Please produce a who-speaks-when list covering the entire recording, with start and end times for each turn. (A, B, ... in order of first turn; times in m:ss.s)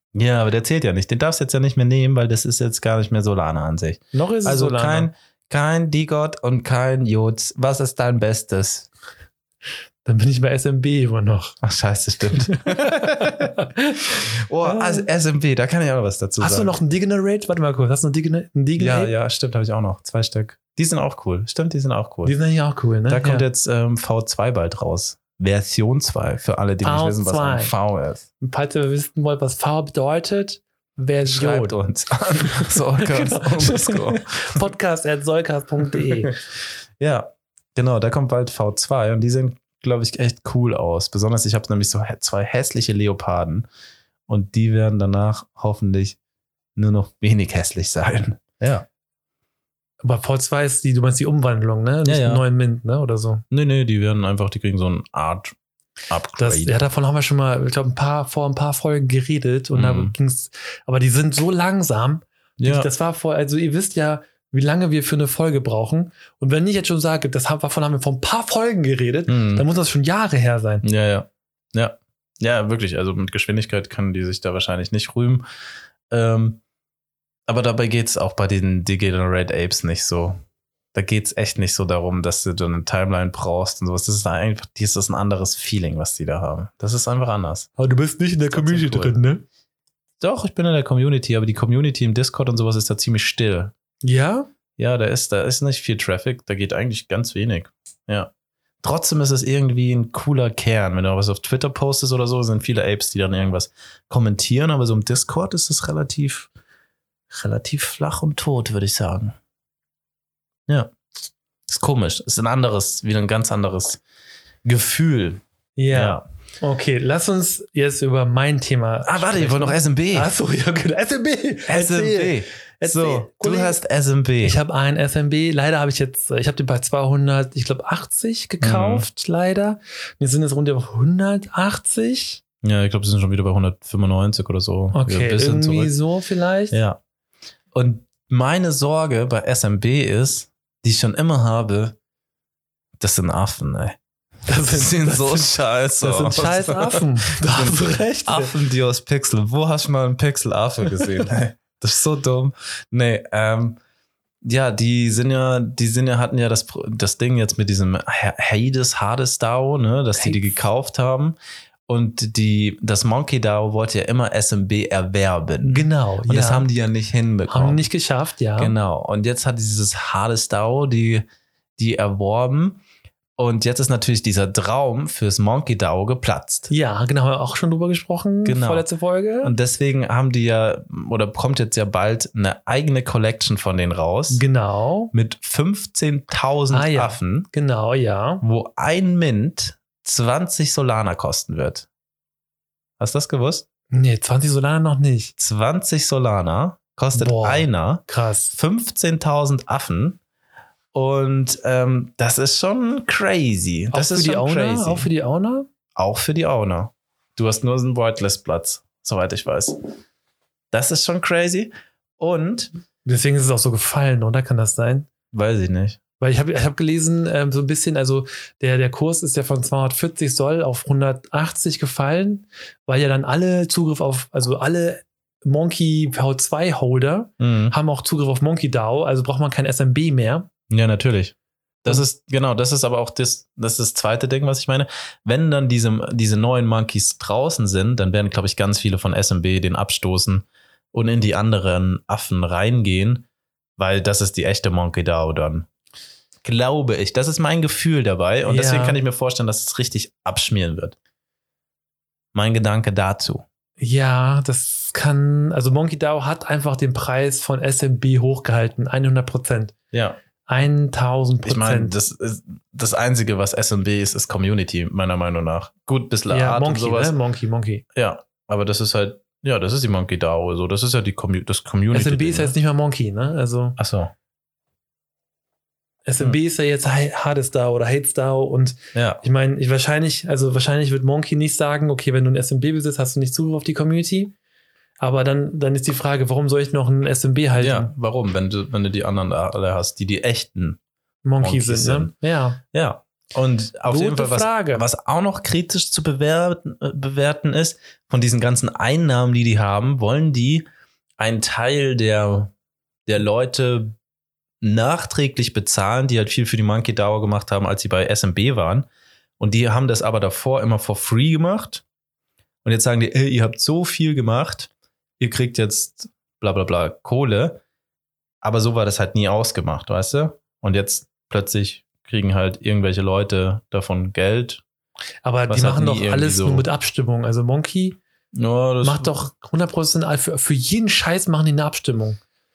0:00.1-0:08.9 A
0:04.1-0:05.1 B
0:10.0-0:11.6 B
0:11.6-0:13.6 A
0:12.3-0:15.1 B
0:14.4-0:16.7 A
0:16.4-0:19.1 B
0:18.8-0:22.4 A
0:22.2-0:23.4 B
0:23.1-0:28.2 A
0:26.8-0:27.7 B
0:28.4-0:31.8 B
0:31.2-0:34.5 A
0:32.6-0:36.4 B
0:35.9-0:36.2 A
0:37.0-0:43.7 A
0:44.3-0:46.2 A
0:46.8-0:48.9 A
0:50.0-0:53.4 B
0:52.0-0:52.4 A
0:53.5-0:55.6 A
0:56.1-0:56.8 A
0:56.4-1:10.8 B
0:59.7-1:00.1 A
1:02.6-1:02.9 A
1:09.3-1:09.6 A
1:10.8-1:15.4 A
1:16.1-1:16.6 A
1:17.5-1:20.4 A
1:20.9-1:27.7 A
1:27.8-1:29.4 B
1:28.5-1:29.2 A
1:30.2-1:33.7 A
1:34.0-1:34.5 B
1:34.8-1:38.3 A
1:38.8-1:46.5 A
1:47.3-1:49.4 A
1:51.7-1:54.0 A
1:54.6-1:55.4 A
1:55.8-2:03.8 B
1:55.9-1:56.2 A
1:59.0-2:00.3 A
2:01.7-2:04.6 A
2:04.4-2:12.4 B
2:08.6-2:09.1 A
2:12.6-2:15.9 A
2:14.9-2:16.8 B
2:16.7-2:17.0 A
2:17.7-2:22.0 A
2:23.0-2:24.0 A
2:24.5-2:28.5 B
2:24.6-2:33.8 A
2:34.4-2:41.4 A
2:40.2-2:40.5 B
2:41.9-2:47.9 A
2:45.6-2:46.7 B
2:47.5-2:48.7 B
2:48.6-2:51.2 A
2:51.8-2:52.8 A
2:53.4-2:56.7 A
2:56.7-2:59.5 B
2:58.4-2:58.9 A
2:59.4-3:04.4 A
3:04.3-3:05.1 B
3:05.1-3:07.5 A
3:06.7-3:08.4 B
3:08.4-3:11.9 A
3:13.0-3:13.7 A
3:13.9-3:15.3 B
3:15.4-3:20.2 A
3:17.1-3:18.6 B
3:20.9-3:25.1 A
3:23.9-3:25.7 B
3:26.0-3:29.8 A
3:30.7-3:32.7 A
3:33.0-3:35.1 B
3:35.3-3:36.0 A
3:36.2-3:50.5 B
3:47.4-3:47.8 A
3:50.7-4:03.3 A
4:03.8-4:05.7 A
4:06.4-4:11.0 A
4:08.5-4:09.0 B
4:12.3-4:13.4 A
4:13.8-4:19.8 B
4:19.9-4:20.2 A
4:20.4-4:22.0 B
4:21.4-4:27.2 A
4:26.3-4:27.8 B
4:27.9-4:32.6 A
4:31.9-4:33.8 B
4:33.8-4:34.1 A
4:36.1-4:44.3 B
4:38.9-4:39.2 A
4:45.0-4:47.9 B
4:47.6-4:50.8 A
4:51.2-4:52.6 B
4:51.4-4:52.1 A
4:52.7-5:00.7 A
4:53.9-4:54.8 B
5:01.2-5:02.5 A
5:03.1-5:04.0 A
5:04.6-5:08.9 A
5:09.4-5:11.8 A
5:12.6-5:17.6 A
5:18.4-5:24.6 A
5:25.2-5:28.0 B
5:25.5-5:26.7 A
5:28.3-5:29.1 A
5:28.8-5:32.2 B